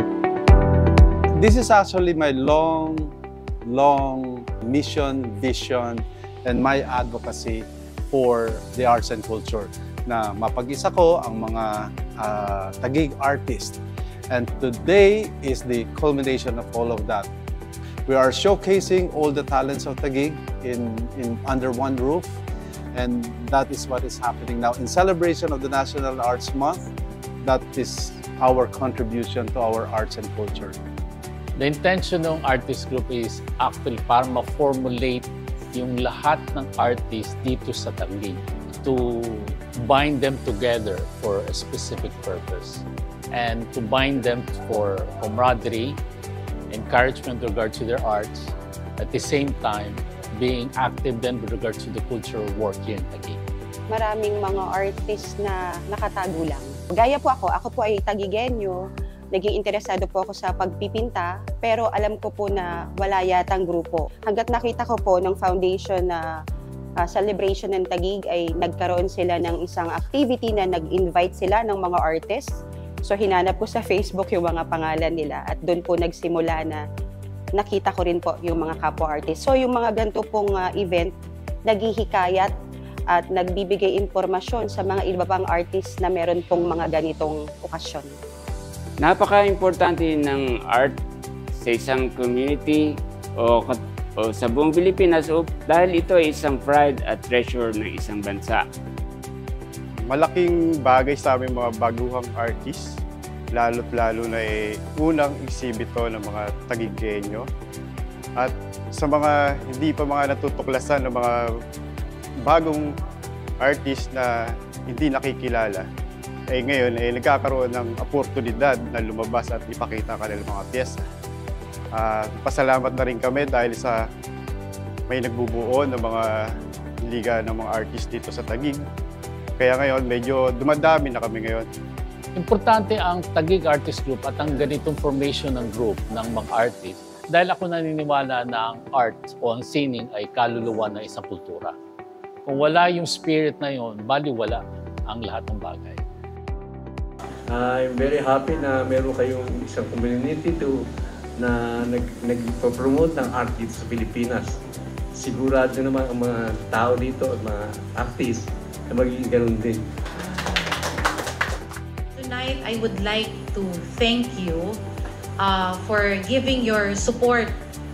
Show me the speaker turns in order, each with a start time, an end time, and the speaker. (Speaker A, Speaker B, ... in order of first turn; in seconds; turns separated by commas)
Speaker A: 1.4-3.1, Speaker A: 3.6-17.3, Speaker A: 18.1-22.4, Speaker A: 22.9-26.9, Speaker A: 27.4-30.8, Speaker B: 31.6-46.0, Speaker B: 46.7-53.4, Speaker C: 53.9-66.3, Speaker C: 67.0-72.5, Speaker C: 73.0-76.8, Speaker C: 77.6-81.1, Speaker C: 81.7-82.5, Speaker C: 83.1-88.1, Speaker D: 89.0-91.0, Speaker D: 91.6-92.8, Speaker D: 93.4-98.6, Speaker E: 100.1-102.9, Speaker E: 103.5-107.5, Speaker E: 108.4-111.4, Speaker E: 112.5-112.8, Speaker E: 113.6-114.3, Speaker E: 114.9-115.8, Speaker E: 116.5-121.0, Speaker E: 121.9-124.0, Speaker E: 125.1-126.2, Speaker E: 127.0-128.8, Speaker E: 129.6-131.7, Speaker B: 132.3-141.7, Speaker B: 142.4-146.0, Speaker F: 147.5-150.8, Speaker F: 151.4-154.6, Speaker F: 155.1-159.8, Speaker G: 162.1-164.8, Speaker G: 165.4-167.5